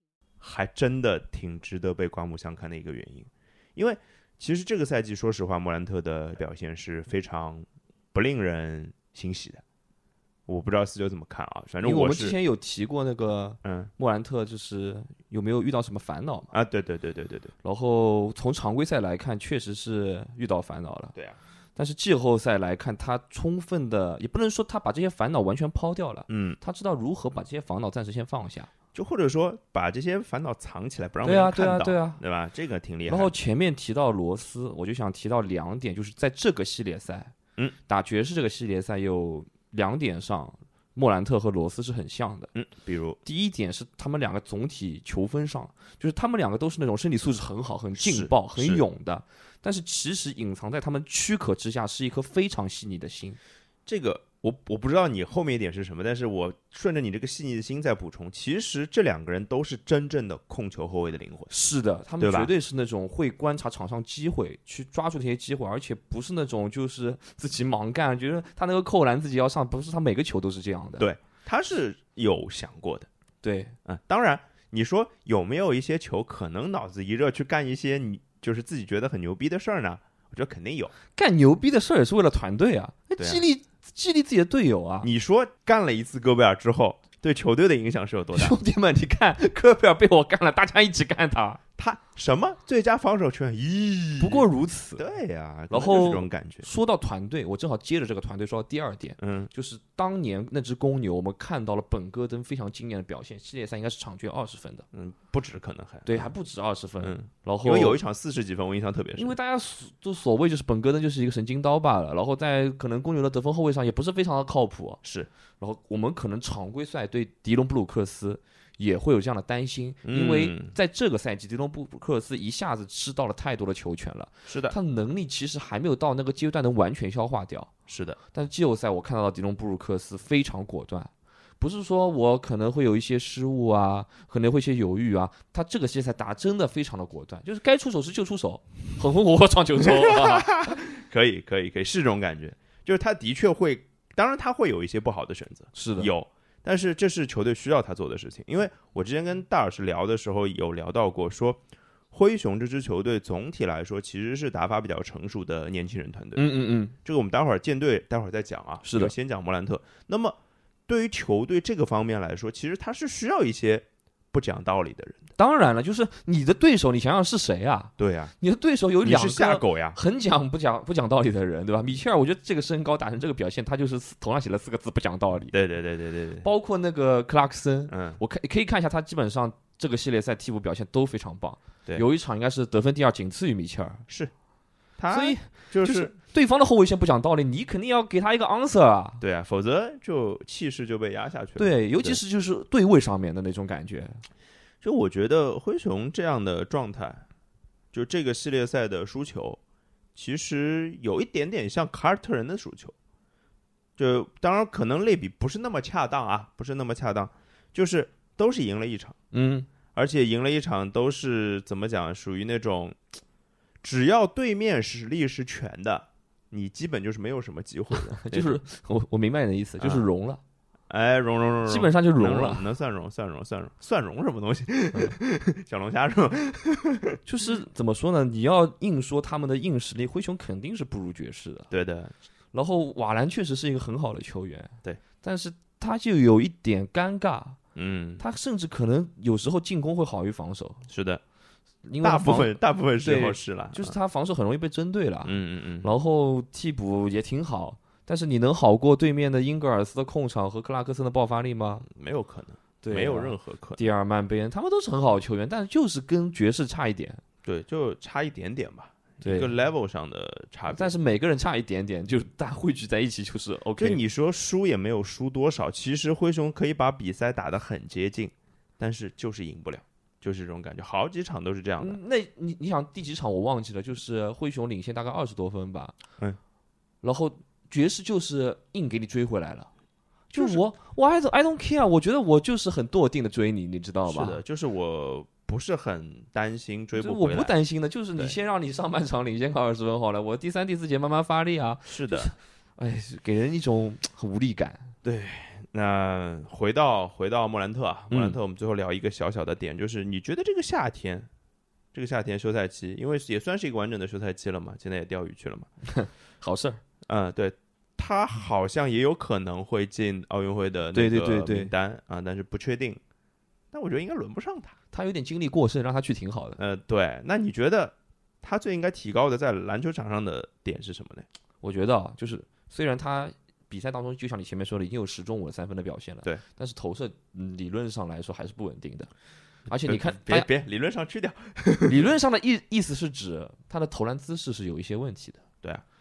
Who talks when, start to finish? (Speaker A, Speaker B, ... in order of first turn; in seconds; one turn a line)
Speaker A: 0.4-9.6
Speaker A: 10.5-12.4
Speaker B: 11.8-16.5
Speaker A: 13.6-13.9
Speaker A: 16.5-17.5
Speaker B: 17.6-21.1
Speaker B: 21.8-28.7
Speaker A: 26.3-26.6
Speaker A: 28.9-33.4
Speaker B: 31.2-32.2
Speaker B: 33.1-37.3
Speaker B: 37.9-42.5
Speaker A: 42.5-43.2
Speaker B: 43.2-53.4
Speaker A: 48.0-48.8
Speaker A: 53.9-61.5
Speaker B: 61.5-71.1
Speaker A: 62.2-62.5
Speaker A: 71.0-73.1
Speaker B: 73.4-73.8
Speaker A: 73.8-80.9
Speaker B: 81.2-85.1
Speaker A: 85.0-88.6
Speaker B: 88.3-91.6
Speaker A: 91.8-96.7
Speaker B: 94.2-95.0
Speaker B: 95.7-104.9
Speaker A: 99.2-99.5
Speaker A: 104.9-106.3
Speaker B: 106.1-108.0
Speaker A: 107.0-109.3
Speaker B: 109.2-115.0
Speaker A: 115.0-115.3
Speaker B: 115.6-127.7
Speaker A: 120.0-120.8
Speaker A: 124.5-124.8
Speaker A: 127.9-128.2
Speaker B: 128.3-140.7
Speaker A: 139.8-156.5
Speaker B: 145.7-146.1
Speaker B: 156.3-156.9
Speaker A: 157.0-165.3
Speaker B: 158.8-159.1
Speaker B: 165.4-175.5
Speaker A: 168.0-168.3
Speaker A: 169.0-170.0
Speaker A: 175.5-176.5
Speaker B: 176.4-184.0
Speaker A: 177.9-178.2
Speaker A: 185.0-186.1
Speaker B: 185.1-189.2
Speaker A: 189.2-192.2
Speaker B: 191.6-194.2
Speaker A: 194.8-197.2
Speaker A: 197.9-199.6
Speaker A: 200.2-202.9
Speaker A: 204.0-209.2
Speaker B: 209.3-209.7
Speaker A: 209.9-213.0
Speaker A: 213.8-218.6
Speaker B: 217.9-220.4
Speaker A: 219.8-220.1
Speaker A: 220.9-227.2
Speaker B: 221.7-222.7
Speaker B: 227.2-231.7
Speaker A: 231.7-232.1
Speaker B: 232.5-237.6
Speaker A: 237.8-238.2
Speaker B: 238.2-240.8
Speaker A: 240.9-241.2
Speaker B: 241.8-251.9
Speaker A: 242.0-243.9
Speaker A: 245.2-245.9
Speaker A: 251.9-253.9
Speaker B: 252.8-257.2
Speaker A: 257.4-260.9
Speaker B: 259.2-259.5
Speaker B: 260.7-264.0
Speaker A: 263.8-272.0
Speaker B: 271.8-275.9
Speaker B: 277.0-279.7
Speaker B: 280.3-284.4
Speaker A: 280.3-280.6
Speaker A: 284.1-287.6
Speaker B: 286.9-294.9
Speaker A: 291.9-292.3
Speaker A: 295.0-301.3
Speaker B: 298.1-298.4
Speaker A: 301.9-305.7
Speaker B: 305.8-306.8
Speaker A: 307.1-313.0
Speaker B: 310.9-311.7
Speaker A: 313.7-314.8
Speaker B: 314.9-316.6
Speaker A: 316.6-321.3
Speaker B: 321.6-329.1
Speaker B: 329.7-330.5
Speaker A: 329.8-332.1
Speaker B: 331.9-335.4